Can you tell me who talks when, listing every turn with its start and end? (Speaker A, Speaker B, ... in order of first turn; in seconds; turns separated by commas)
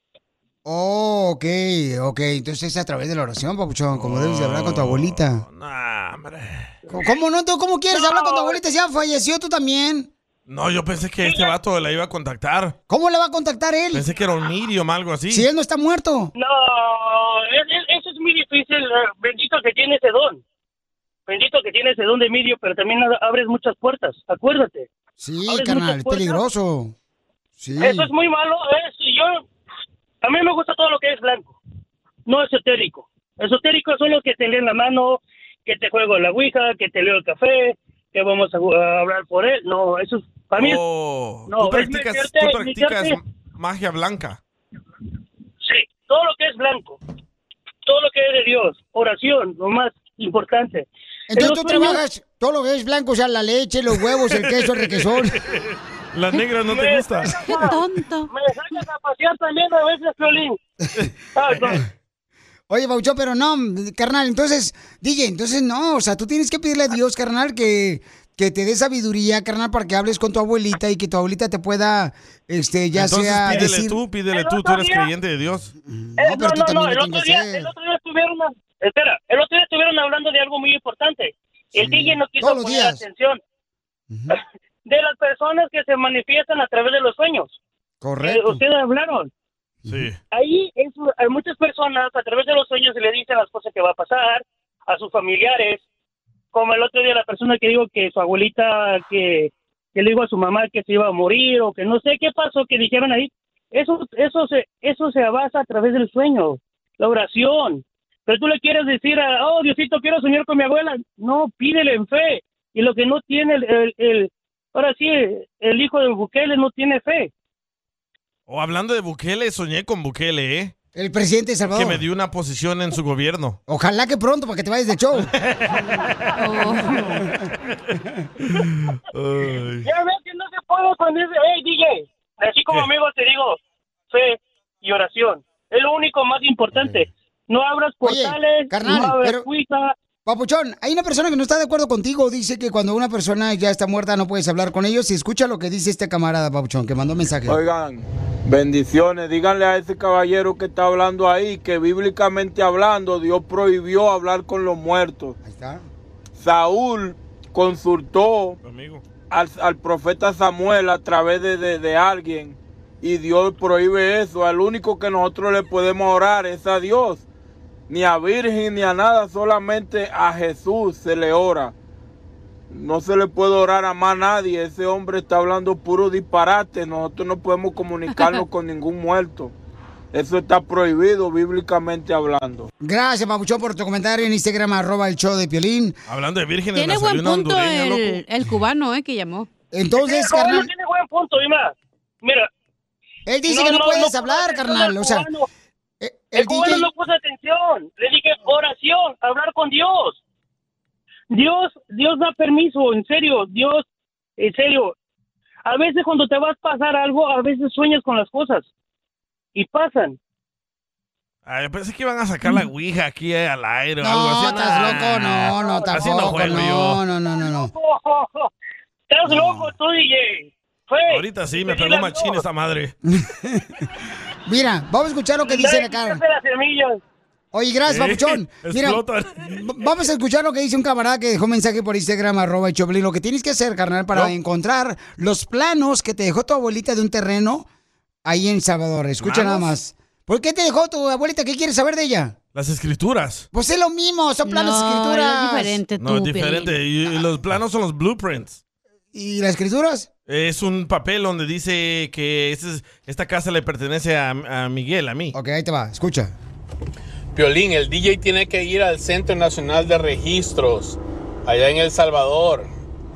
Speaker A: 0.7-5.4, Speaker B: 3.9-6.7, Speaker A: 6.9-10.1, Speaker C: 7.9-8.6, Speaker B: 10.5-12.8, Speaker C: 11.2-11.5, Speaker A: 12.9-14.1, Speaker B: 13.9-15.5, Speaker A: 15.3-16.3, Speaker C: 16.4-20.4, Speaker C: 21.3-24.9, Speaker A: 25.2-26.9, Speaker C: 25.5-26.4, Speaker A: 27.6-28.1, Speaker C: 27.8-29.4, Speaker C: 30.2-31.6, Speaker C: 32.3-40.8, Speaker B: 40.5-44.4, Speaker C: 41.5-43.2, Speaker C: 45.6-47.0, Speaker C: 47.9-52.0, Speaker A: 51.3-55.4, Speaker B: 54.4-57.4, Speaker C: 56.7-60.6, Speaker D: 57.4-58.3, Speaker C: 61.4-61.8, Speaker A: 62.7-74.0, Speaker B: 73.0-75.7, Speaker C: 74.3-75.1, Speaker A: 75.8-77.7, Speaker C: 76.2-83.4, Speaker A: 81.8-83.0, Speaker A: 84.1-84.4, Speaker C: 84.3-87.6, Speaker A: 88.0-88.6, Speaker C: 88.2-89.3, Speaker B: 89.9-90.2, Speaker C: 90.3-95.8, Speaker C: 96.5-117.3, Speaker B: 118.5-120.7, Speaker A: 121.0-122.0, Speaker B: 121.7-123.6, Speaker A: 123.7-125.3, Speaker B: 125.3-126.3, Speaker D: 126.4-127.2, Speaker B: 128.5-129.9, Speaker C: 129.8-133.6, Speaker C: 134.1-139.9, Speaker A: 138.0-139.5, Speaker A: 140.3-147.6, Speaker E: 147.5-155.4, Speaker A: 155.4-155.8, Speaker E: 156.4-158.6, Speaker B: 158.6-159.0, Speaker E: 159.3-167.2, Speaker E: 167.9-171.7, Speaker E: 172.7-179.5, Speaker E: 180.1-182.7, Speaker A: 182.8-186.0, Speaker B: 186.1-188.2, Speaker D: 186.8-189.5, Speaker A: 189.7-190.7, Speaker C: 190.0-192.5, Speaker A: 193.3-195.3, Speaker C: 193.5-195.5, Speaker A: 196.0-196.9, Speaker C: 196.3-200.2, Speaker C: 201.3-203.8, Speaker C: 204.4-204.9, Speaker C: 205.7-208.7, Speaker C: 209.6-210.2, Speaker B: 211.5-217.0, Speaker A: 214.0-217.7, Speaker C: 215.6-215.9, Speaker C: 217.3-218.5, Speaker C: 219.1-222.4, Speaker A: 219.3-219.7, Speaker B: 221.1-222.9, Speaker A: 223.1-223.8, Speaker A: 224.5-226.2, Speaker C: 225.5-227.0, Speaker A: 227.5-237.7, Speaker B: 227.9-229.5, Speaker A: 238.2-242.4, Speaker B: 239.2-239.7, Speaker B: 242.6-243.5, Speaker A: 243.5-245.8, Speaker D: 244.5-246.8, Speaker B: 246.0-248.6, Speaker A: 249.1-250.1, Speaker B: 250.3-255.3, Speaker A: 255.3-256.3, Speaker F: 257.3-262.7